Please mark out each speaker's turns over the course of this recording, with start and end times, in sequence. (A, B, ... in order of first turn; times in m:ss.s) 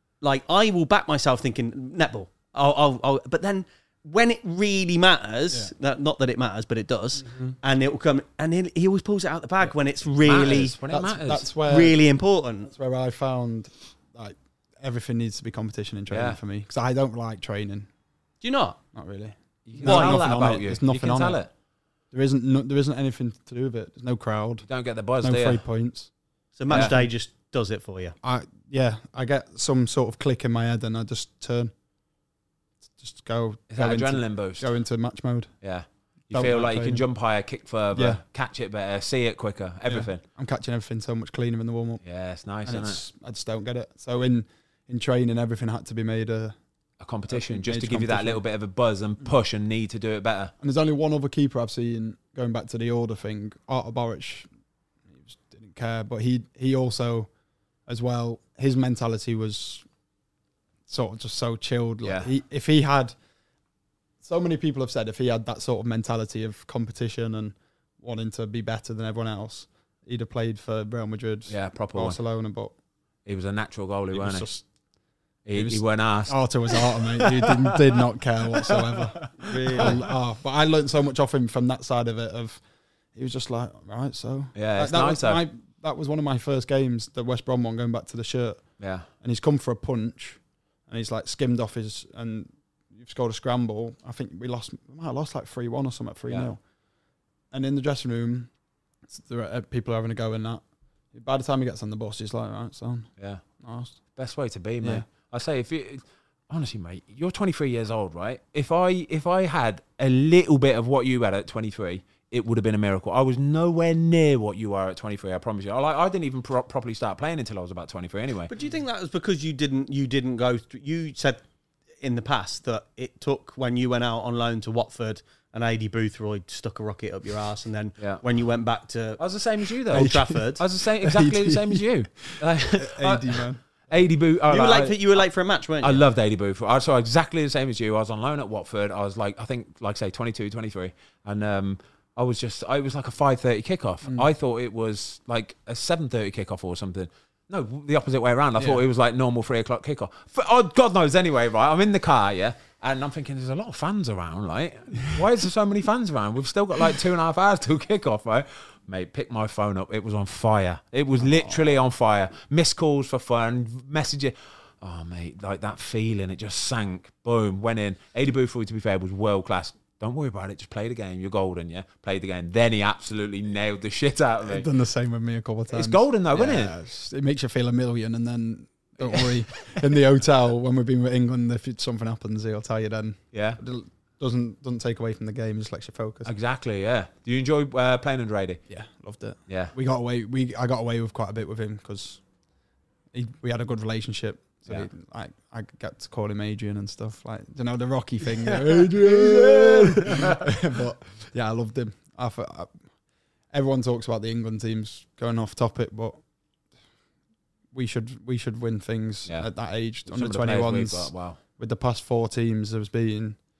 0:00.2-0:10.8 A
0:07.2-0:07.6 B
0:10.2-0:11.5 C
0:10.4-0:12.0 B
0:11.6-0:12.7 A
0:12.6-0:17.9 B
0:16.1-0:16.4 C
0:18.4-0:18.8 A
0:19.0-0:21.4 B
0:19.7-0:21.5 C
0:19.8-0:20.2 A
0:22.1-0:24.7 B
0:24.7-0:25.6 C
0:25.2-0:26.1 B
0:26.6-0:28.2 A
0:26.7-0:27.1 B
0:28.2-0:31.7 B
0:33.0-0:35.5 B
0:33.7-0:34.7 C
0:35.6-0:40.2 C
0:36.3-0:37.1 B
0:37.9-0:38.2 B
0:39.9-0:42.0 B
0:42.0-0:43.0 C
0:42.6-0:46.6 B
0:47.0-0:50.5 C
0:47.3-0:48.4 B
0:50.6-0:54.5 B
0:55.1-0:57.3 B
0:57.9-0:59.9 B
1:00.9-1:03.2 B
1:02.0-1:02.3 C
1:04.2-1:12.7 B
1:11.5-1:12.2 C
1:13.3-1:14.5 C
1:14.1-1:14.6 B
1:15.5-1:18.0 C
1:15.5-1:22.6 B
1:18.6-1:20.0 C
1:19.4-1:20.0 A
1:23.2-1:36.6 B
1:24.6-1:25.4 C
1:28.8-1:29.1 C
1:37.5-1:38.5 B
1:39.1-1:44.0 B
1:43.2-1:43.4 C
1:44.2-1:58.5 C
1:58.5-2:01.4 A
2:02.0-2:09.2 A
2:09.2-2:15.2 C
2:09.9-2:10.6 A
2:09.9-2:10.5 B
2:11.0-2:13.6 B
2:14.5-2:16.0 A
2:15.8-2:54.7 C
2:28.6-2:28.8 B
2:41.2-2:41.8 B
2:54.4-3:06.3 B
2:55.7-2:56.7 C
3:03.3-3:03.6 C
3:06.2-3:08.6 C
3:08.7-3:12.2 B
3:09.5-3:09.7 C
3:13.1-3:22.7 B
3:18.4-3:20.6 C
3:23.5-3:26.2 B
3:27.7-3:33.4 B
3:30.1-3:31.4 C